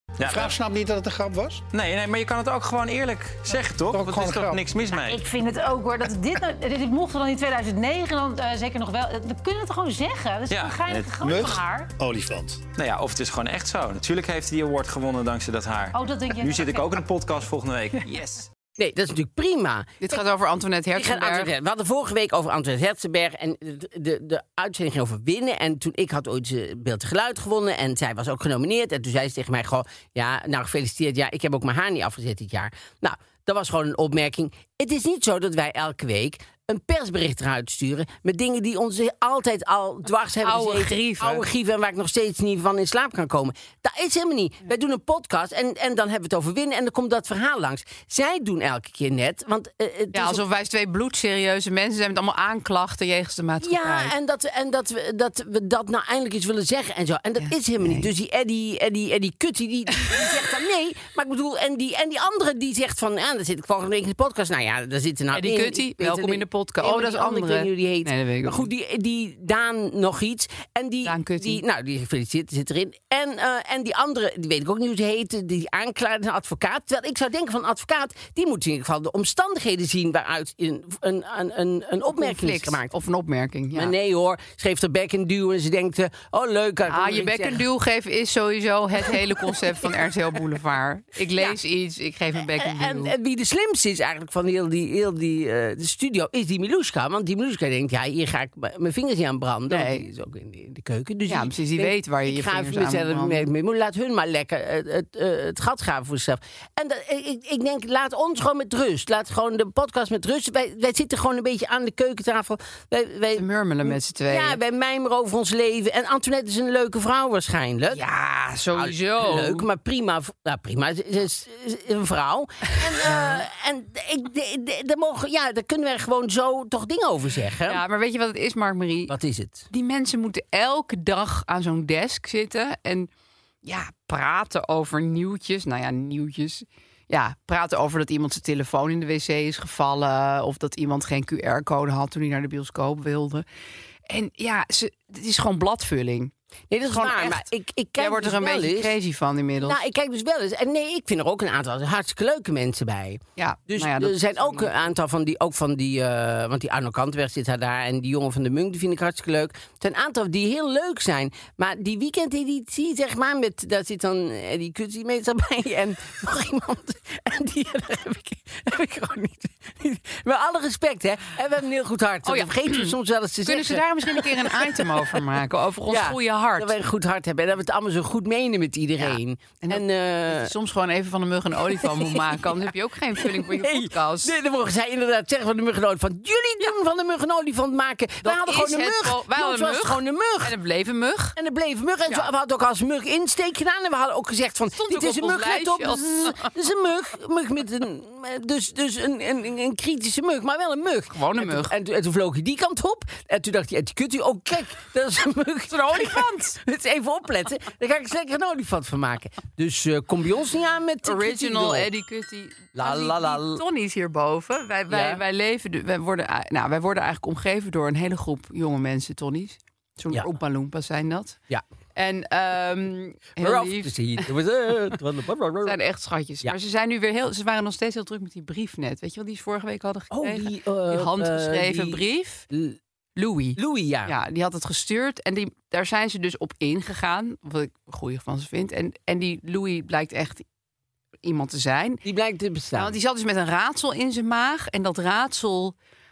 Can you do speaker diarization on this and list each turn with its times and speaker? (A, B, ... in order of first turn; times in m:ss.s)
0:00.2-0:00.6 A
0:00.2-0:01.6 B
0:01.7-0:05.2 A
0:03.9-0:04.7 B
0:05.0-0:11.9 C
0:10.5-0:11.1 A
0:11.2-0:12.6 B
0:12.8-0:18.0 A
0:15.9-0:17.0 C
0:18.0-0:18.5 D
0:18.8-0:20.2 E
0:20.0-0:21.5 D
0:21.0-0:50.4 E
0:40.4-0:41.4 D
0:50.1-0:54.1 D
0:53.6-1:22.9 E
0:57.4-0:58.1 D
1:05.3-1:08.7 D
1:11.0-1:11.6 D
1:22.1-1:23.9 D
1:23.7-1:27.6 E
1:26.9-1:33.1 D
1:29.0-1:29.8 E
1:32.4-1:58.0 E
1:39.7-1:40.1 D
1:41.3-1:43.5 D
1:53.3-1:54.6 D
1:57.9-1:59.7 D
1:58.7-2:07.8 E
2:07.7-2:09.1 D
2:09.1-2:09.7 E
2:09.7-2:13.1 D
2:13.6-2:23.4 D
2:24.1-2:26.3 D
2:26.7-2:29.0 E
2:26.9-2:29.8 D
2:29.6-2:55.1 E
2:33.4-2:34.8 D
2:52.2-2:56.8 D
2:55.9-3:00.6 E
2:59.0-3:04.3 D
3:01.7-3:10.6 E
3:08.2-3:11.4 D
3:11.4-3:31.9 E
3:14.7-3:16.5 D
3:21.1-3:21.8 D
3:25.7-3:26.6 D
3:31.0-3:41.4 D
3:32.8-3:33.6 E
3:34.9-3:35.2 E
3:42.0-3:44.3 D
3:43.4-3:45.8 E
3:45.6-3:52.5 D
3:50.1-3:52.8 E
3:53.2-4:00.4 D
3:53.6-3:54.2 E
4:01.2-4:02.0 D
4:02.0-4:03.0 E
4:02.8-4:05.8 D